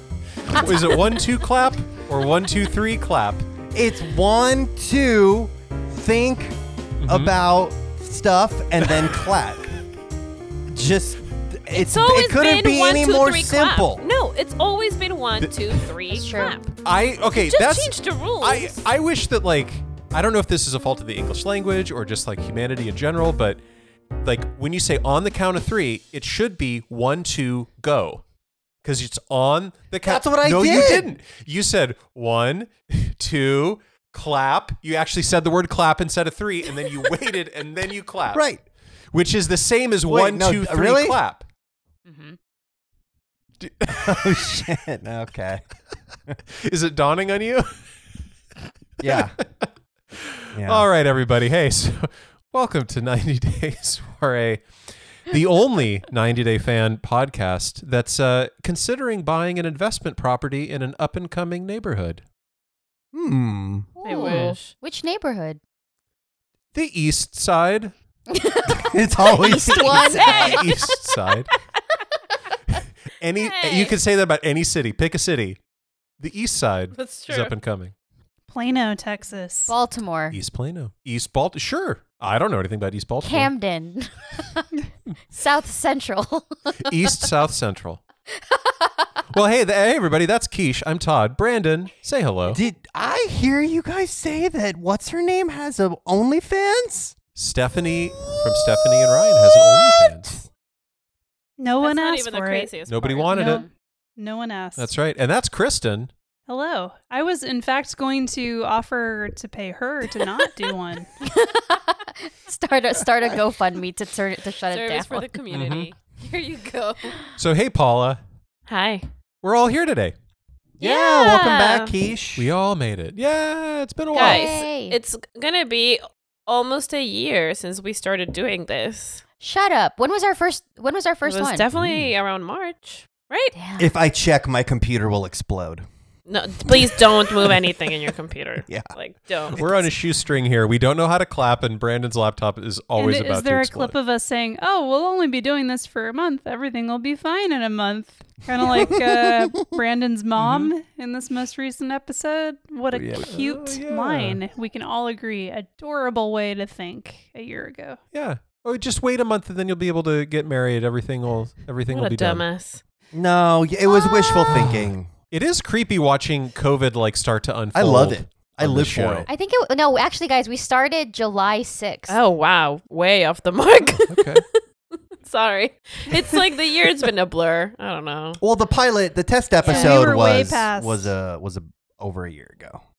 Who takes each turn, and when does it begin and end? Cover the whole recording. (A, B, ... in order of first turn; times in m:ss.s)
0:00.4-0:03.5 A
0:03.7-0:09.7 B
0:07.0-0:07.3 A
0:10.7-0:14.0 B
0:11.7-0:16.8 C
0:15.4-0:15.7 A
0:16.1-0:16.6 D
0:16.8-0:23.6 A
0:17.3-0:18.8 C
0:24.2-0:28.2 A
0:28.8-0:38.4 A
0:30.0-0:31.1 B
0:38.3-0:38.6 B
0:39.1-0:41.4 A
0:40.0-0:41.2 B
0:42.0-0:42.4 D
0:43.6-0:44.6 A
0:43.9-0:45.6 B
0:46.5-0:47.8 A
0:49.0-0:49.4 B
0:49.0-0:54.7 A
0:50.5-0:50.8 B
0:55.2-1:02.2 A
1:03.1-1:03.9 B
1:04.0-1:05.6 D
1:04.0-1:04.7 C
1:04.2-1:04.6 A
1:06.7-1:07.9 A
1:08.3-1:11.0 D
1:08.7-1:10.5 B
1:10.2-1:10.6 C
1:10.2-1:11.5 A
1:12.7-1:15.6 A
1:13.4-1:14.0 C
1:16.2-1:17.9 A
1:16.9-1:17.6 C
1:18.5-1:19.7 E
1:19.7-1:20.4 D
1:20.3-1:23.5 A
1:23.2-1:24.8 D
1:25.3-1:27.2 D
1:26.8-1:28.0 A
1:28.3-1:29.2 D
1:29.3-1:32.6 A
1:32.5-1:37.1 B
1:37.3-1:40.4 A
1:38.3-1:40.2 B
1:41.6-1:42.7 E
1:41.8-1:43.5 C
1:42.9-1:43.6 A
1:43.3-1:43.6 E
1:43.3-1:43.7 D
1:44.2-1:44.9 E
1:44.8-1:46.1 A
1:46.5-1:51.1 E
1:51.2-1:55.3 D
1:54.7-1:57.2 C
1:55.5-1:55.9 A
1:57.4-1:58.2 A
1:58.7-1:59.1 C
1:59.4-2:00.1 A
2:00.8-2:02.5 B
2:00.8-2:02.0 C
2:02.4-2:04.5 A
2:04.1-2:09.2 C
2:04.2-2:05.0 D
2:09.4-2:11.6 D
2:11.2-2:13.5 C
2:11.7-2:12.1 A
2:13.5-2:13.9 D
2:13.8-2:15.8 B
2:16.3-2:19.9 C
2:16.7-2:17.6 B
2:18.7-2:18.9 B
2:19.5-2:24.0 A
2:23.0-2:38.0 E
2:28.8-2:29.5 B
2:30.4-2:30.7 A
2:32.9-2:34.4 A
2:38.1-2:42.4 A
2:41.9-2:42.8 C
2:43.1-2:45.1 B
2:44.5-2:49.3 A
2:47.7-2:49.3 B
2:49.3-2:52.2 D
2:52.1-2:54.6 C
2:54.1-2:54.4 A
2:55.1-2:58.4 C
2:58.4-3:02.8 B
2:59.6-3:01.1 E
2:59.6-3:00.1 C